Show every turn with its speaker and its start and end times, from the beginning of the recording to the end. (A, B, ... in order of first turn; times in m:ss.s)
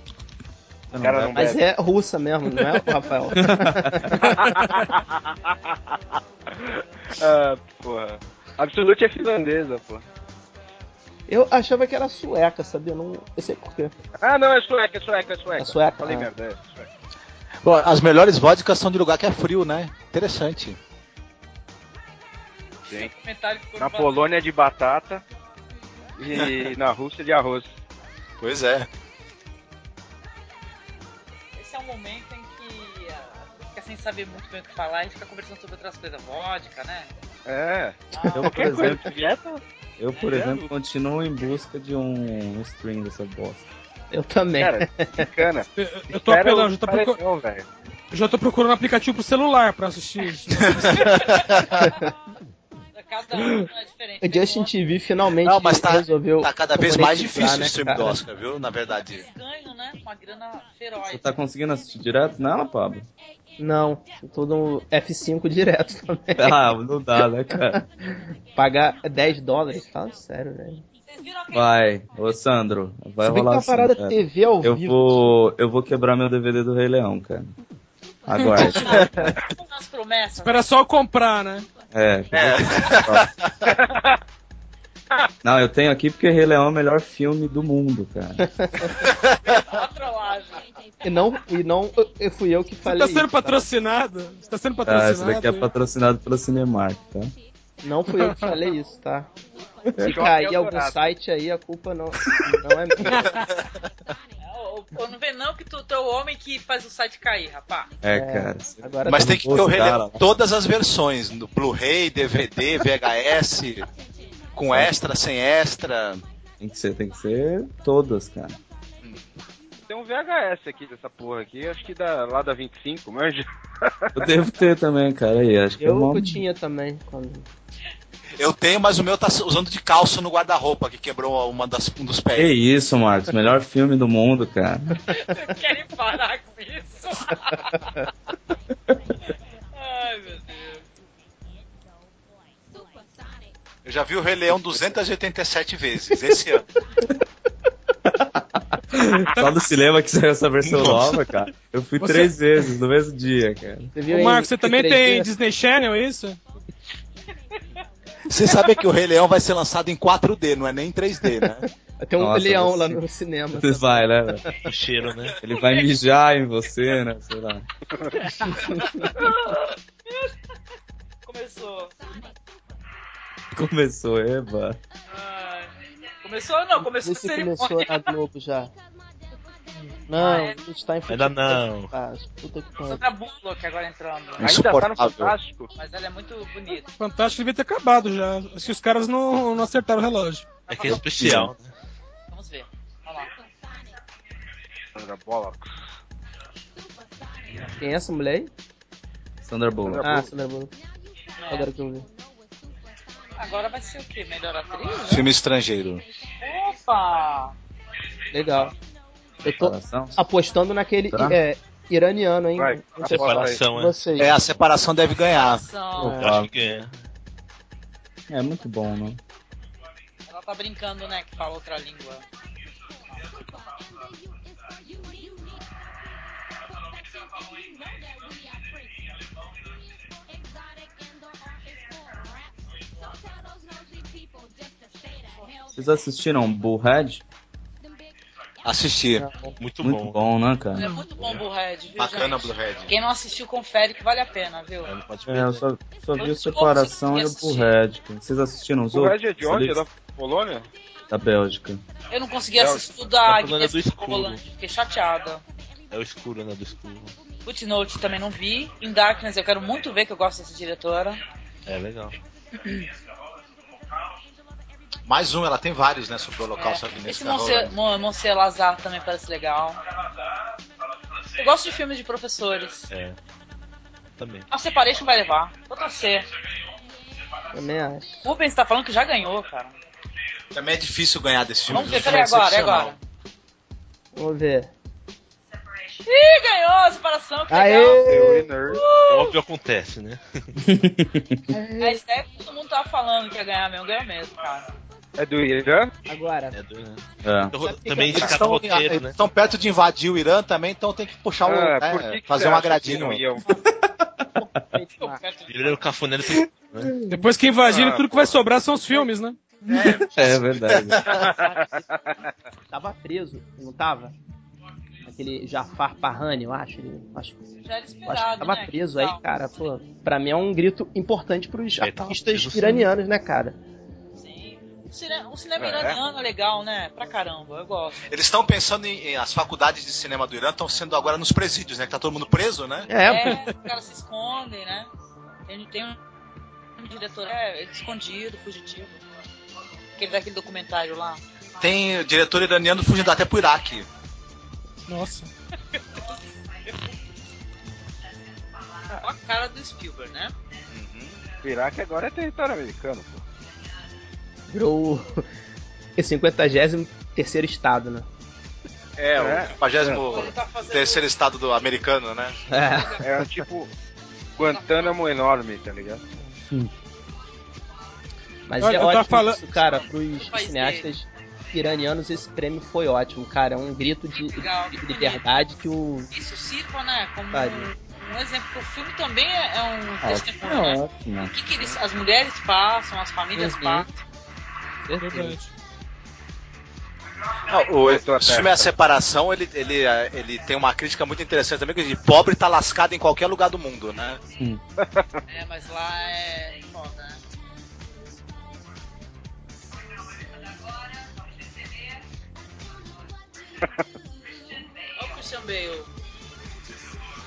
0:00.9-0:01.4 A
0:01.0-0:01.6 B
0:01.4-0:04.4 C
0:03.3-0:04.2 A
0:04.4-0:06.0 B
0:06.5-0:10.0 B
0:11.3-0:13.9 C
0:14.2-0:16.9 B
0:15.6-0:16.3 C
0:17.6-0:20.8 D
0:22.9-0:24.2 E
0:23.8-0:25.2 B
0:26.2-0:27.7 B
0:28.4-0:28.9 D
0:31.6-0:37.1 E
0:37.5-0:39.6 B
0:38.1-0:38.9 E
0:38.3-0:39.1 A
0:40.0-0:43.7 A
0:40.2-0:40.7 B
0:44.1-0:45.3 C
0:44.6-0:47.7 B
0:45.8-0:47.2 F
0:48.1-0:51.2 F
0:50.7-0:51.7 D
0:51.0-0:51.7 E
0:51.8-0:52.1 C
0:52.9-0:54.7 E
0:54.2-0:58.2 C
0:55.4-0:59.2 D
0:59.1-1:01.3 E
1:01.1-1:03.1 A
1:03.6-1:06.7 C
1:06.4-1:07.8 A
1:08.6-1:10.8 C
1:11.1-1:11.7 E
1:11.5-1:17.6 A
1:13.2-1:15.2 C
1:18.3-1:19.3 A
1:18.6-1:20.6 E
1:19.0-1:19.3 C
1:20.4-1:21.7 F
1:21.9-1:23.3 A
1:22.3-1:23.7 D
1:23.7-1:24.2 B
1:25.4-1:28.4 A
1:28.6-1:28.9 C
1:29.4-1:30.6 E
1:31.0-1:33.6 C
1:32.8-1:35.7 F
1:34.8-1:37.3 A
1:37.8-1:39.3 C
1:38.2-1:38.6 F
1:40.0-1:43.3 C
1:40.0-1:41.0 B
1:44.4-1:47.9 E
1:48.0-1:50.2 A
1:48.1-1:49.6 C
1:49.1-1:53.9 D
1:54.6-1:56.2 D
1:56.6-1:58.6 A
1:59.9-2:04.2 B
2:04.2-2:06.4 A
2:05.8-2:07.5 C
2:08.4-2:12.5 D
2:12.4-2:15.0 A
2:15.1-2:18.0 E
2:19.7-2:20.8 E
2:23.8-2:26.6 D
2:28.1-2:34.0 A
2:30.6-2:31.3 G
2:32.0-2:32.4 F
2:34.0-2:35.3 C
2:34.1-2:36.4 F
2:38.3-2:41.7 D
2:42.0-2:44.5 C
2:42.2-2:43.0 A
2:43.5-2:44.4 A
2:44.7-2:45.4 G
2:45.4-2:47.7 A
2:45.6-2:45.9 E
2:48.4-2:49.1 C
2:49.2-2:49.5 E
2:51.3-2:52.0 E
2:53.6-2:54.8 A
2:55.1-2:55.7 E
2:56.2-2:58.1 E
2:56.8-2:58.7 C
3:00.1-3:03.0 C
3:00.2-3:00.6 E
3:01.1-3:01.9 G
3:02.9-3:04.5 E
3:04.4-3:05.4 D
3:04.4-3:05.7 B
3:05.8-3:06.9 E
3:07.0-3:10.5 F
3:10.7-3:11.7 G
3:10.7-3:11.0 E
3:11.2-3:11.5 A
3:12.3-3:13.3 E
3:15.0-3:15.7 B
3:17.8-3:18.5 C
3:19.4-3:20.2 A
3:19.9-3:20.3 B
3:20.0-3:20.7 C
3:21.4-3:21.7 E
3:21.5-3:22.1 C
3:23.4-3:25.3 E
3:25.0-3:26.0 D
3:26.4-3:27.5 E
3:28.3-3:28.7 C
3:29.4-3:34.3 C
3:29.6-3:30.2 A
3:31.1-3:31.4 A
3:32.6-3:33.6 B
3:33.0-3:34.5 G
3:34.2-3:35.6 D
3:35.3-3:36.2 E
3:36.0-3:36.3 C
3:36.0-3:36.5 A
3:36.2-3:36.9 G
3:38.3-3:39.2 A
3:40.3-3:42.2 E
3:55.8-3:57.2 A
3:58.6-3:59.3 D
3:59.6-4:00.2 G
3:59.8-4:00.9 A
4:00.8-4:04.9 E
4:02.0-4:02.9 D
4:04.9-4:05.6 G
4:05.3-4:09.8 A
4:06.2-4:07.8 E
4:08.9-4:10.7 B
4:11.1-4:11.8 A
4:12.1-4:15.4 E
4:12.5-4:12.8 B
4:13.2-4:14.4 G
4:15.9-4:17.1 G
4:17.4-4:21.2 E
4:21.7-4:22.2 G
4:25.1-4:27.7 D
4:26.6-4:29.8 E
4:31.4-4:32.9 E
4:32.9-4:33.2 G
4:34.2-4:34.5 G
4:34.5-4:36.3 E
4:37.5-4:38.2 C
4:38.2-4:39.7 E
4:40.5-4:43.0 D
4:41.7-4:43.0 E
4:44.2-4:44.7 C
4:46.1-4:48.0 E
4:47.5-4:48.5 C
4:48.0-4:48.8 B
4:48.7-4:49.4 E
4:49.1-4:50.4 G
4:50.6-4:51.6 A
4:51.5-4:52.0 C
4:51.8-4:54.7 E
4:55.2-4:55.9 B
4:56.1-4:56.6 C
4:56.5-4:59.2 G
4:57.2-4:57.5 A
4:57.6-4:58.6 C
4:58.1-5:03.2 D
5:01.4-5:03.4 B
5:04.0-5:04.3 A
5:04.4-5:05.2 C
5:05.0-5:05.8 E
5:05.5-5:06.9 G
5:06.3-5:07.2 A
5:07.1-5:09.4 F
5:07.6-5:08.4 B
5:09.7-5:11.2 D
5:09.8-5:11.2 A
5:11.1-5:11.7 B
5:11.1-5:11.8 E
5:12.7-5:14.2 C
5:15.0-5:17.4 C
5:17.6-5:19.6 E
5:18.1-5:23.6 C
5:21.8-5:22.9 G
5:24.2-5:28.0 E
5:25.6-5:26.0 B
5:28.1-5:32.9 D
5:32.9-5:33.4 C
5:33.0-5:34.9 E
5:35.5-5:36.0 E
5:36.8-5:39.0 E
5:40.0-5:41.2 E
5:41.6-5:43.9 D
5:44.9-5:45.3 F
5:45.8-5:46.1 E
5:49.0-5:50.3 E
5:50.7-5:51.2 D
5:51.4-5:53.2 B
5:54.5-5:55.2 C
5:56.0-5:58.1 C
5:59.0-6:00.1 B
5:59.1-6:02.3 D
6:00.0-6:01.1 E
6:02.5-6:03.3 C
6:02.7-6:03.0 E
6:03.0-6:03.7 B
6:04.4-6:06.0 B
6:04.5-6:05.0 E
6:08.5-6:16.1 C
6:08.6-6:09.4 F
6:09.6-6:10.9 E
6:14.2-6:15.4 E
6:16.1-6:24.0 E
6:17.3-6:17.7 C
6:20.0-6:21.3 A
6:23.4-6:23.8 C
6:24.9-6:25.4 C
6:24.9-6:25.5 F
6:27.5-6:34.2 D
6:27.8-6:28.7 B
6:34.8-6:35.1 B
6:35.3-6:37.2 E
6:44.9-6:45.9 E